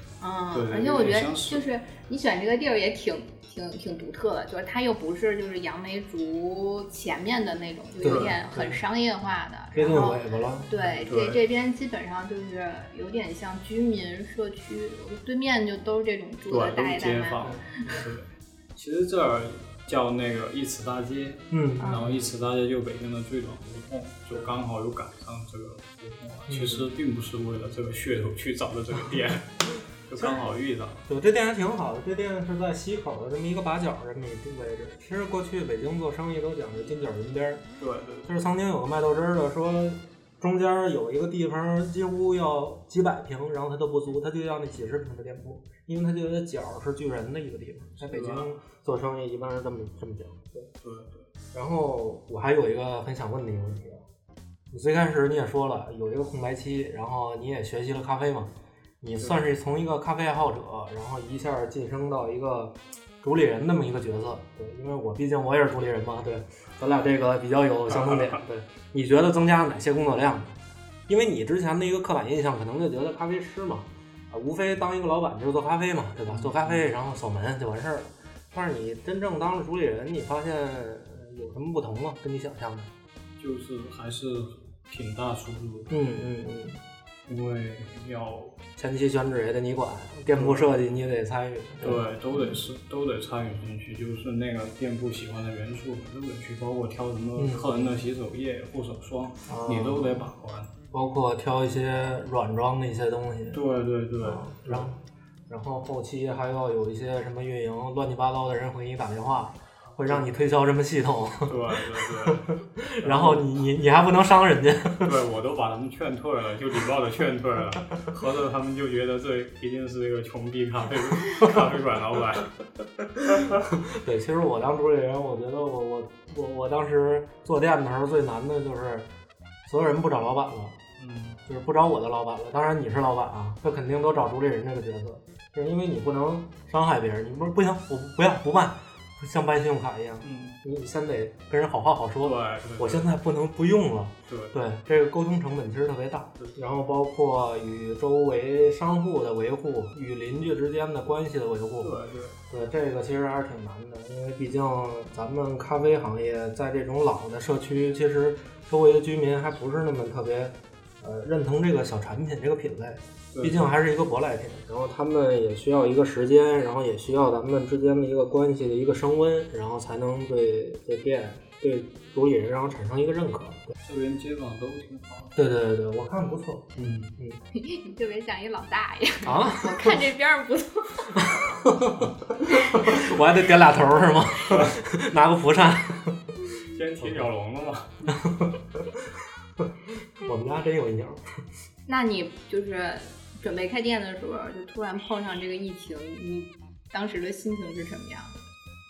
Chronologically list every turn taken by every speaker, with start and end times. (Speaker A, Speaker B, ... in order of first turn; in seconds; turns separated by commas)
Speaker A: 0.2-17.5, Speaker B: 0.5-1.6, Speaker C: 8.0-8.8, Speaker B: 8.0-8.4, Speaker C: 9.7-11.0, Speaker B: 11.0-11.4, Speaker B: 16.4-31.0, Speaker C: 17.4-18.0, Speaker C: 21.5-22.1, Speaker A: 21.8-22.1, Speaker C: 26.5-26.9, Speaker C: 31.1-37.6, Speaker B: 37.8-38.3, Speaker C: 38.2-50.7, Speaker B: 48.0-48.5, Speaker B: 50.8-51.3, Speaker C: 51.5-54.0, Speaker C: 54.7-58.5, Speaker C: 59.0-82.9, Speaker B: 67.9-68.4, Speaker B: 76.3-76.9, Speaker B: 83.4-85.9, Speaker C: 85.9-86.8, Speaker B: 87.3-88.6, Speaker C: 88.8-92.0, Speaker B: 90.3-90.7, Speaker B: 91.8-100.7, Speaker C: 97.4-97.9, Speaker C: 99.5-100.3, Speaker C: 100.9-103.6, Speaker B: 103.5-104.9, Speaker C: 104.2-105.0, Speaker C: 105.5-115.1, Speaker B: 109.8-110.2, Speaker B: 111.4-112.5, Speaker B: 113.0-113.5, Speaker B: 115.0-122.5, Speaker B: 123.3-123.6, Speaker C: 123.4-129.1, Speaker C: 129.6-130.8, Speaker B: 131.0-131.4, Speaker C: 131.4-151.9, Speaker B: 140.2-140.6, Speaker B: 142.2-143.1, Speaker B: 144.3-144.5, Speaker B: 151.8-152.4, Speaker C: 152.5-173.7, Speaker B: 163.3-163.7, Speaker B: 173.8-175.3, Speaker C: 175.3-177.4, Speaker B: 176.8-177.1, Speaker A: 177.5-181.3, Speaker C: 179.2-180.0, Speaker C: 181.2-186.3, Speaker B: 184.5-184.8, Speaker B: 186.7-187.9, Speaker C: 187.0-187.3, Speaker C: 188.1-189.1, Speaker C: 189.6-191.2, Speaker A: 191.9-198.3